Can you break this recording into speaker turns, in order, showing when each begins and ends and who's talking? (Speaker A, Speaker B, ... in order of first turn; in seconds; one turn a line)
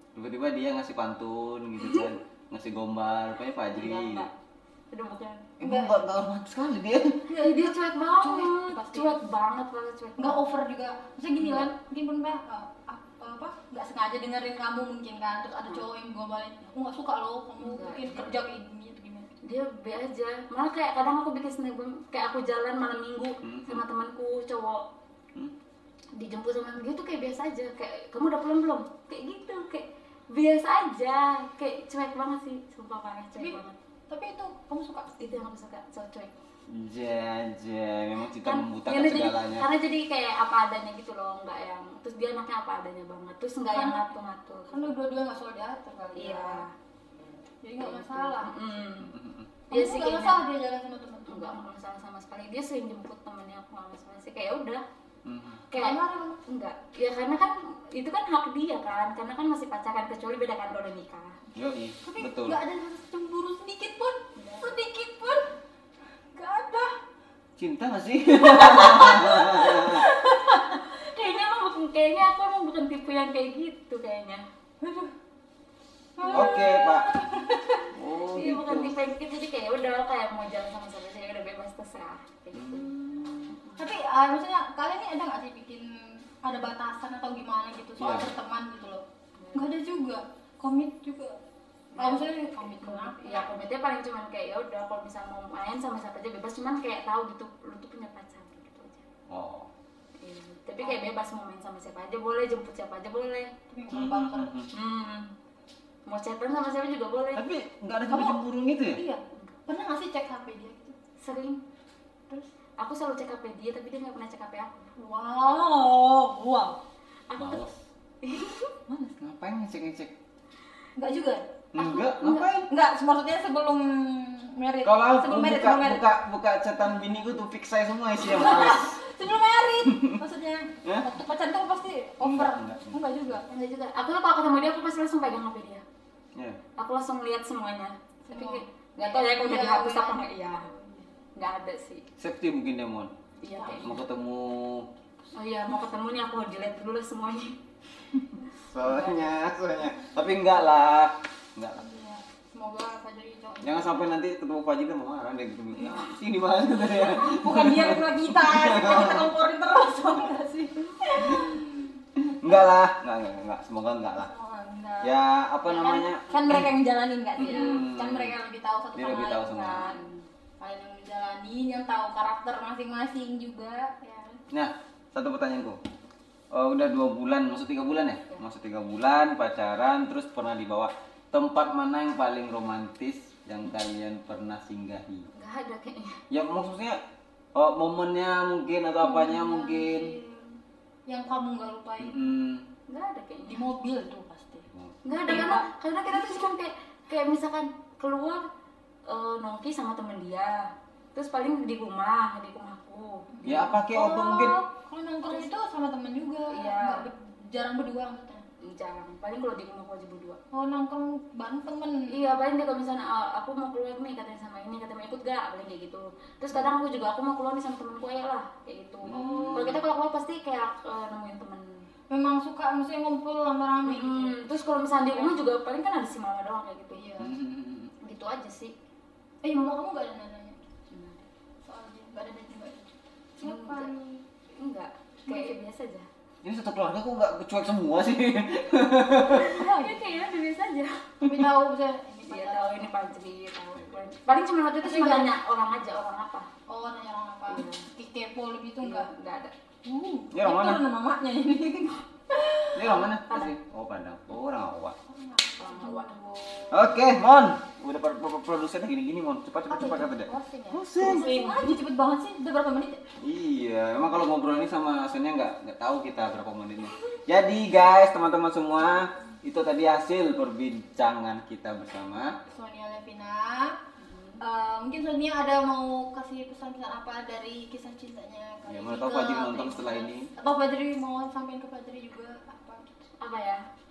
Speaker A: 0.1-4.3
Speaker B: 3.7-4.3
Speaker B: 4.9-5.5
Speaker A: 5.6-7.2
Speaker C: 5.6-6.0
Speaker C: 7.3-9.2
Speaker B: 7.4-10.4
Speaker C: 10.2-19.3
Speaker B: 11.4-11.7
Speaker B: 17.6-18.3
Speaker B: 19.4-24.9
Speaker A: 23.4-23.8
Speaker B: 26.1-33.8
Speaker C: 33.4-35.1
Speaker B: 35.2-36.3
Speaker A: 36.7-39.7
Speaker B: 38.4-44.9
Speaker C: 43.7-44.1
Speaker C: 44.7-46.6
Speaker B: 46.1-46.7
Speaker C: 47.6-48.6
Speaker B: 47.8-49.1
Speaker A: 49.0-49.5
Speaker C: 49.7-51.6
Speaker B: 49.7-50.4
Speaker B: 51.3-54.8
Speaker A: 55.2-55.6
Speaker B: 55.7-61.4
Speaker C: 55.7-56.4
Speaker A: 61.5-62.6
Speaker C: 62.0-65.5
Speaker B: 64.3-64.8
Speaker C: 66.3-66.9
Speaker A: 67.6-70.0
Speaker C: 68.4-70.8
Speaker B: 71.0-74.4
Speaker C: 74.8-75.1
Speaker C: 76.2-77.9
Speaker A: 76.3-77.1
Speaker A: 77.9-78.9
Speaker B: 78.3-82.9
Speaker A: 82.5-83.6
Speaker B: 83.6-83.9
Speaker C: 83.8-89.0
Speaker A: 88.0-88.3
Speaker B: 89.4-89.7
Speaker C: 89.5-91.4
Speaker B: 91.9-99.0
Speaker C: 92.0-93.5
Speaker A: 99.3-99.7
Speaker B: 100.2-103.5
Speaker C: 100.8-101.1
Speaker C: 103.7-104.6
Speaker A: 103.9-104.7
Speaker B: 104.7-105.3
Speaker B: 106.0-107.4
Speaker A: 107.3-109.0
Speaker C: 108.1-108.4
Speaker C: 109.0-111.0
Speaker B: 111.2-111.6
Speaker B: 112.8-114.9
Speaker C: 115.0-116.8
Speaker B: 117.3-117.7
Speaker A: 117.4-117.8
Speaker B: 118.2-118.7
Speaker C: 118.9-119.2
Speaker A: 119.2-120.1
Speaker C: 121.0-126.0
Speaker A: 121.7-122.7
Speaker A: 124.8-129.0
Speaker C: 128.2-133.4
Speaker A: 129.8-130.2
Speaker A: 132.2-133.1
Speaker B: 133.5-135.8
Speaker A: 136.3-136.6
Speaker B: 136.8-140.7
Speaker C: 138.3-141.1
Speaker B: 141.3-142.0
Speaker A: 142.2-143.1
Speaker B: 143.4-144.0
Speaker C: 143.5-143.9
Speaker A: 143.7-144.9
Speaker B: 145.3-147.6
Speaker A: 148.7-151.9
Speaker B: 148.8-149.3
Speaker C: 151.8-154.1
Speaker A: 153.6-159.3
Speaker C: 157.0-161.8
Speaker A: 161.2-161.6
Speaker A: 162.2-164.3
Speaker C: 164.2-165.2
Speaker A: 165.0-166.7
Speaker B: 165.7-166.6
Speaker C: 166.3-170.0
Speaker A: 167.4-168.3
Speaker B: 167.5-167.8
Speaker A: 168.9-169.9
Speaker B: 169.6-170.2
Speaker C: 170.6-174.4
Speaker A: 174.5-175.8
Speaker A: 176.5-185.3
Speaker B: 185.3-186.2
Speaker A: 186.3-187.0
Speaker A: 187.5-190.1
Speaker C: 189.0-192.2
Speaker A: 192.0-192.7
Speaker B: 192.9-193.7
Speaker C: 193.5-195.7
Speaker A: 194.7-195.4
Speaker B: 195.0-198.5
Speaker B: 199.1-203.7
Speaker C: 203.3-208.4
Speaker A: 203.4-204.6
Speaker B: 206.5-207.1
Speaker B: 208.6-210.4
Speaker C: 210.5-212.2
Speaker B: 212.1-221.8
Speaker A: 219.1-219.8
Speaker C: 219.1-219.8
Speaker C: 222.1-224.4
Speaker B: 223.8-227.0
Speaker C: 225.1-225.4
Speaker C: 226.9-227.3
Speaker A: 227.2-227.9
Speaker B: 228.0-228.7
Speaker C: 229.4-230.6
Speaker B: 230.9-231.2
Speaker C: 231.6-234.2
Speaker B: 233.4-233.9
Speaker B: 234.5-236.1
Speaker C: 235.3-235.6
Speaker A: 236.4-239.5
Speaker B: 239.2-241.4
Speaker C: 239.4-240.0
Speaker C: 241.2-243.0
Speaker B: 242.3-246.5
Speaker C: 244.8-245.3
Speaker C: 246.7-249.1
Speaker B: 247.5-247.8
Speaker B: 248.8-249.5
Speaker C: 249.8-253.0
Speaker A: 250.3-250.8
Speaker A: 252.7-254.9
Speaker B: 252.9-253.5
Speaker C: 255.1-256.8
Speaker B: 255.6-256.2
Speaker A: 256.7-261.3
Speaker C: 259.7-263.0
Speaker B: 261.0-261.7
Speaker A: 263.2-272.4
Speaker C: 272.5-273.8
Speaker B: 274.0-274.4
Speaker C: 274.4-282.9
Speaker A: 278.6-280.3
Speaker B: 283.2-283.6